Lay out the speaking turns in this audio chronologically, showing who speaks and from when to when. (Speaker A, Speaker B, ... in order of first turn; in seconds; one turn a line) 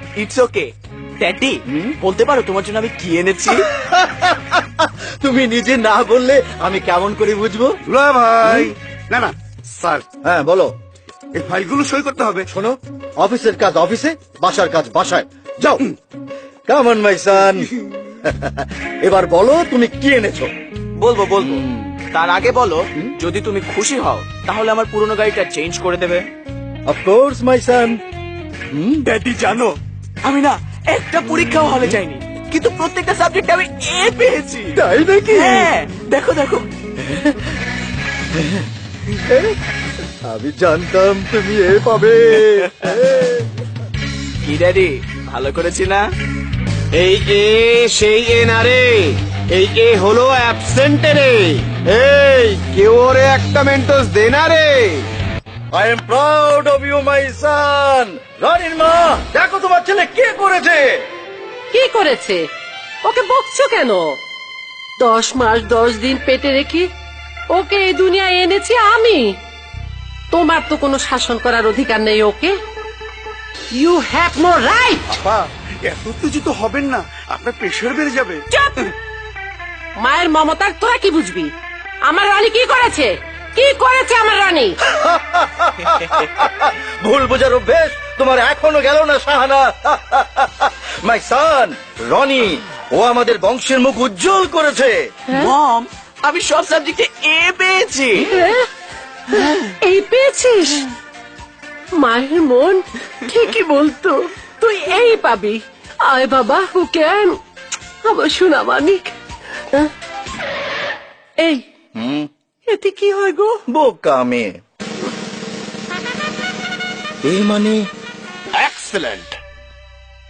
Speaker A: 0.1-3.7
Speaker B: 1.6-1.9
Speaker B: 3.5-8.7
Speaker C: 7.9-10.0
Speaker B: 10.2-10.7
Speaker C: 11.3-12.5
Speaker B: 12.5-15.9
Speaker B: 16.7-17.7
Speaker B: 18.2-20.5
Speaker A: 21.0-26.3
Speaker B: 21.4-22.0
Speaker B: 26.9-28.0
Speaker B: 28.7-29.1
Speaker A: 29.0-36.7
Speaker B: 34.7-35.7
Speaker B: 37.1-37.3
Speaker B: 38.3-38.7
Speaker B: 39.3-39.6
Speaker B: 40.2-43.5
Speaker A: 44.4-46.0
Speaker D: 46.9-55.1
Speaker B: 55.7-61.0
Speaker E: 61.7-62.4
Speaker E: 63.0-64.2
Speaker E: 65.0-66.9
Speaker E: 67.5-69.3
Speaker E: 70.3-72.5
Speaker E: 73.7-75.2
Speaker C: 75.1-78.4
Speaker E: 78.5-78.9
Speaker E: 80.0-81.5
Speaker E: 82.0-84.8
Speaker B: 84.8-95.0
Speaker A: 86.0-86.2
Speaker A: 95.3-98.3
Speaker E: 98.2-98.7
Speaker E: 99.3-100.8
Speaker E: 102.0-107.4
Speaker E: 108.0-109.1
Speaker E: 111.4-111.6
Speaker B: 111.9-112.3
Speaker E: 112.7-113.6
Speaker B: 113.7-114.5
Speaker B: 117.2-117.9
Speaker D: 118.5-119.3